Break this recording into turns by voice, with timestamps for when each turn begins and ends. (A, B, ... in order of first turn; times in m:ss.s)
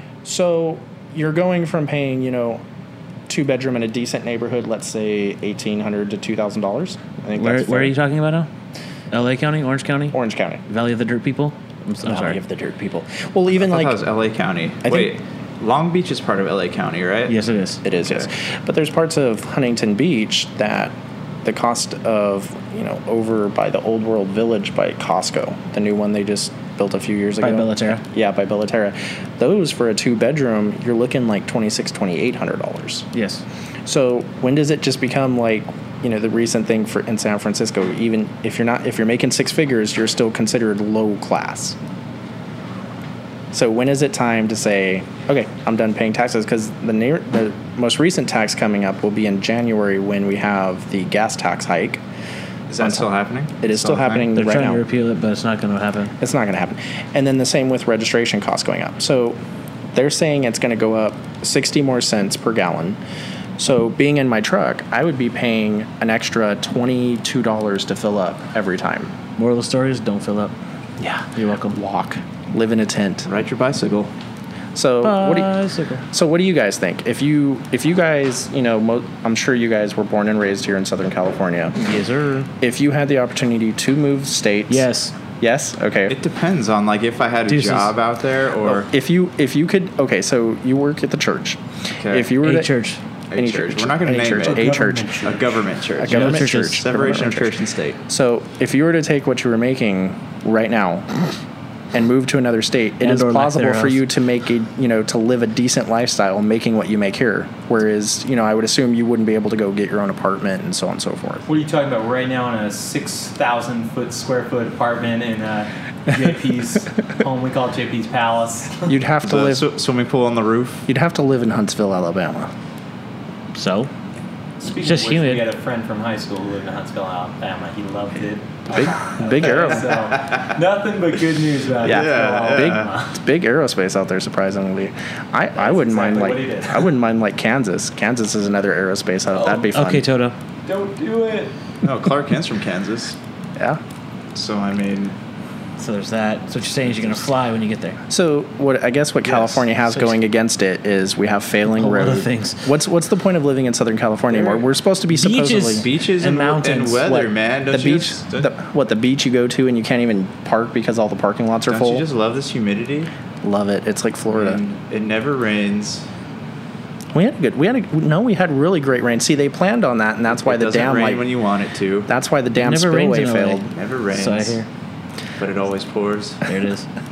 0:00.2-0:02.6 A
0:03.3-0:08.0 A
0:07.4-0:08.5 B
0:09.1-0:10.2 B
0:10.1-0:10.6 A
0:10.7-0:12.4 B
0:12.0-0:14.0 A
0:13.5-0:17.4 C
0:14.8-0:15.2 A
0:17.3-0:17.8 B
0:17.8-0:33.1 A
0:27.4-0:28.0 B
0:33.1-0:33.4 B
0:33.9-0:41.8 A
0:43.5-0:52.0 A
0:52.7-0:54.3 C
0:52.8-0:54.8 A
0:54.3-0:56.1 B
0:56.2-0:59.4 A
1:00.0-1:03.0 A
1:03.6-1:09.1 A
1:09.4-1:10.5 B
1:11.0-1:13.3 A
1:11.4-1:11.8 B
1:13.2-1:14.1 C
1:14.8-1:15.5 A
1:15.0-1:16.0 B
1:16.1-1:21.8 A
1:21.8-1:22.5 B
1:22.6-1:26.2 A
1:24.7-1:25.2 B
1:26.1-1:28.9 C
1:27.5-1:28.0 B
1:28.6-1:32.7 A
1:32.0-1:32.4 C
1:32.4-1:33.0 B
1:33.3-1:34.7 C
1:33.4-1:35.2 A
1:34.4-1:35.6 D
1:35.2-1:38.0 C
1:36.0-1:41.1 A
1:36.1-1:36.8 B
1:41.9-1:51.4 A
1:43.0-1:44.0 B
1:51.5-1:58.9 D
1:58.9-1:59.7 A
1:59.2-2:00.9 C
2:00.9-2:02.5 A
2:03.5-2:03.9 B
2:04.6-2:13.2 D
2:04.8-2:05.5 B
2:08.7-2:09.9 A
2:11.8-2:12.9 C
2:11.8-2:20.0 A
2:15.6-2:16.9 D
2:19.3-2:19.7 D
2:19.7-2:20.4 B
2:20.6-2:21.6 D
2:21.8-2:23.2 C
2:24.4-2:25.2 C
2:25.8-2:28.0 B
2:26.8-2:27.2 C
2:28.1-2:35.8 A
2:29.2-2:30.2 B
2:31.7-2:32.7 B
2:35.1-2:37.1 B
2:35.8-2:38.5 C
2:37.0-2:42.1 A
2:41.7-2:43.1 C
2:43.4-2:44.6 A
2:44.3-2:46.1 C
2:47.1-2:51.3 A
2:50.3-2:52.1 C
2:52.1-2:53.7 A
2:52.6-2:54.7 B
2:53.7-2:54.6 C
2:55.4-2:56.5 C
2:56.4-2:56.9 B